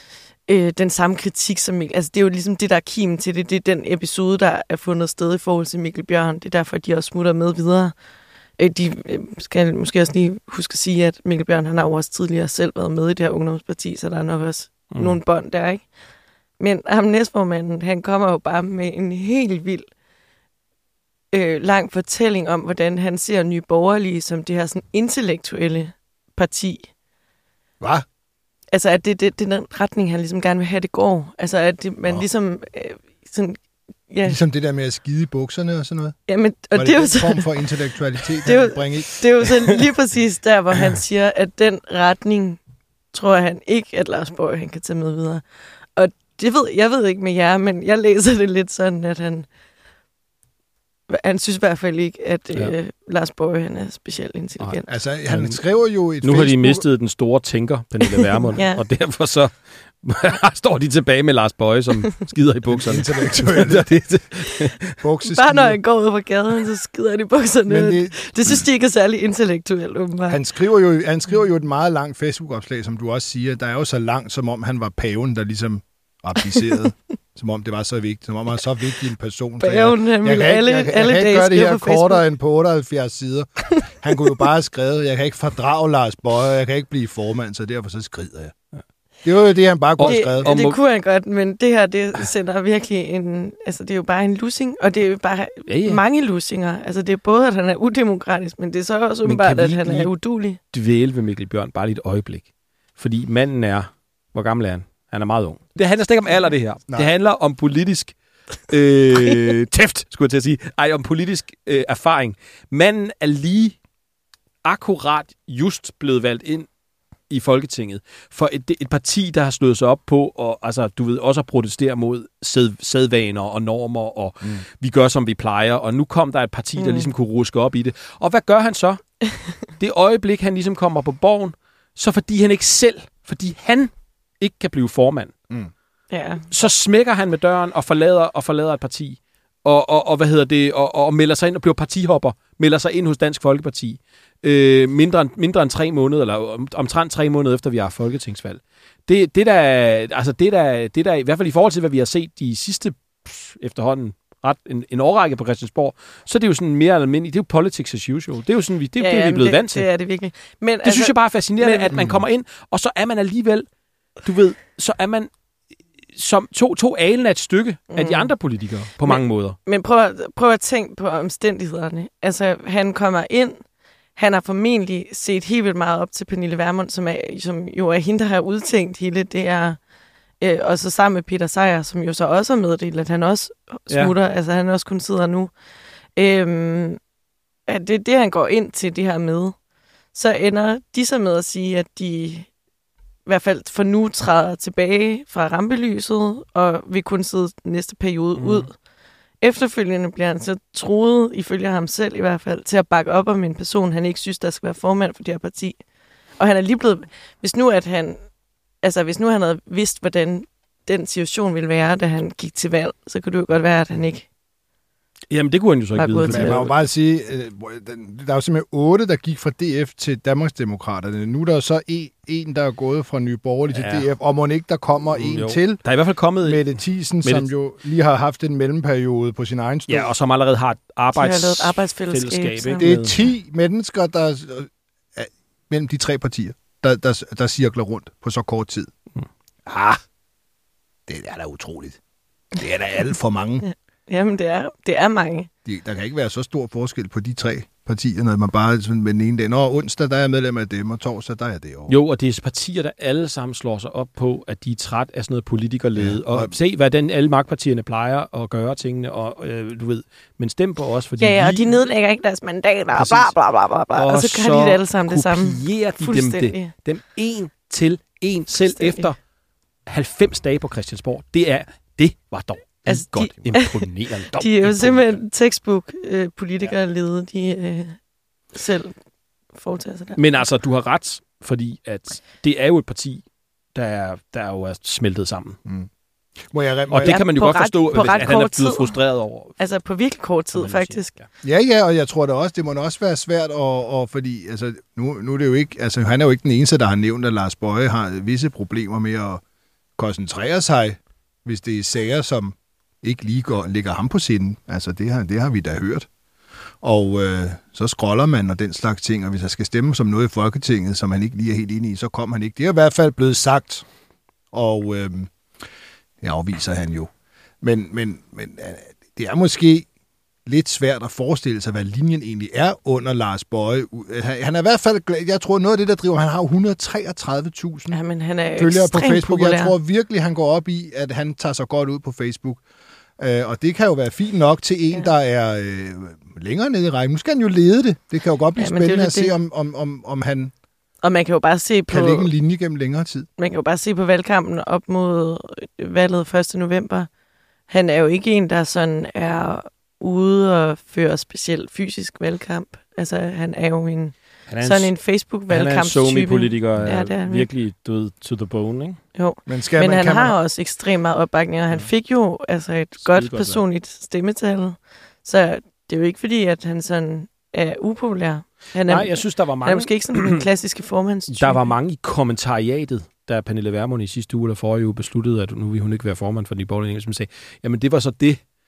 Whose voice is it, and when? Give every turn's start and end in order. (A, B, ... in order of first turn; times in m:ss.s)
0:00.5-0:07.9 A
0:08.6-0:15.9 A
0:14.9-0:15.2 B
0:16.6-0:19.9 A
0:21.3-0:26.9 A
0:28.7-0:34.4 A
0:34.2-0:36.2 C
0:36.3-0:37.8 A
0:36.7-0:39.1 C
0:38.4-0:42.6 A
0:43.1-0:45.4 A
0:46.0-0:49.5 A
0:51.1-0:54.9 A
0:54.6-0:55.6 B
0:54.9-0:56.8 C
0:56.2-1:04.9 B
0:58.5-0:58.8 A
1:02.7-1:03.9 C
1:05.0-1:05.8 C
1:05.3-1:10.4 A
1:07.7-1:08.6 C
1:10.3-1:28.5 C
1:19.6-1:22.2 A
1:29.2-1:30.5 C
1:30.0-1:30.8 B
1:30.0-1:40.6 A
1:35.7-1:36.0 B
1:39.2-1:40.1 B
1:40.7-1:48.1 B
1:48.6-1:53.8 B
1:54.6-1:56.7 B
1:57.3-2:09.0 B
2:06.8-2:07.1 A
2:09.7-2:15.3 B
2:16.1-2:16.5 A
2:16.5-2:39.8 B
2:39.0-2:42.0 A
2:40.8-2:43.6 B
2:41.9-2:42.2 C
2:44.2-2:45.3 B
2:46.1-2:49.6 B
2:47.9-2:48.3 A
2:49.0-2:53.6 A
2:54.2-2:59.8 A
3:00.4-3:05.5 A
3:06.2-3:07.0 A
3:07.7-3:09.6 A
3:10.1-3:12.5 A
3:13.2-3:18.8 A
3:18.4-3:18.7 B
3:19.4-3:25.8 A
3:26.4-3:28.2 A
3:28.8-3:34.3 A
3:35.3-3:36.7 B
3:36.0-3:36.6 A
3:36.3-3:45.8 C
3:43.7-3:44.1 B
3:45.1-3:47.5 B
3:46.4-3:50.1 C
3:49.9-3:53.2 B
3:51.1-3:53.0 A
3:52.8-3:58.9 C
3:59.7-4:00.0 C
4:01.1-4:02.0 C
4:02.6-4:03.6 C
4:03.6-4:05.5 A
4:05.6-4:11.9 C
4:11.9-4:21.8 B
4:16.0-4:16.5 C
4:21.2-4:26.7 A
4:22.9-4:23.4 B
4:23.9-4:29.2 B
4:28.5-4:29.1 A
4:29.8-4:35.2 B
4:32.9-4:38.0 A
4:38.5-4:39.0 A
4:39.5-4:40.5 A
4:40.2-4:43.2 B
4:43.7-4:45.6 B
4:45.6-4:45.9 C
4:46.4-4:47.2 C
4:46.9-4:49.6 B
4:47.0-4:49.0 A
4:49.6-4:51.1 A
4:50.5-4:51.3 B
4:51.4-4:59.4 C
5:00.0-5:06.1 C
5:06.8-5:13.8 C
5:14.5-5:15.3 C
5:16.2-5:19.9 C
5:20.4-5:28.0 C
5:27.9-5:29.7 A
5:28.6-5:32.6 C
5:33.2-5:40.5 C
5:38.6-5:39.3 A
5:41.0-5:42.3 A
5:41.9-5:43.3 C
5:43.4-5:47.1 A
5:47.7-5:57.5 A
5:54.5-5:54.9 B
5:55.5-5:59.0 B
5:59.1-6:11.7 A
5:59.5-6:00.4 C
6:03.0-6:03.6 B
6:08.8-6:10.4 B
6:11.3-6:18.4 B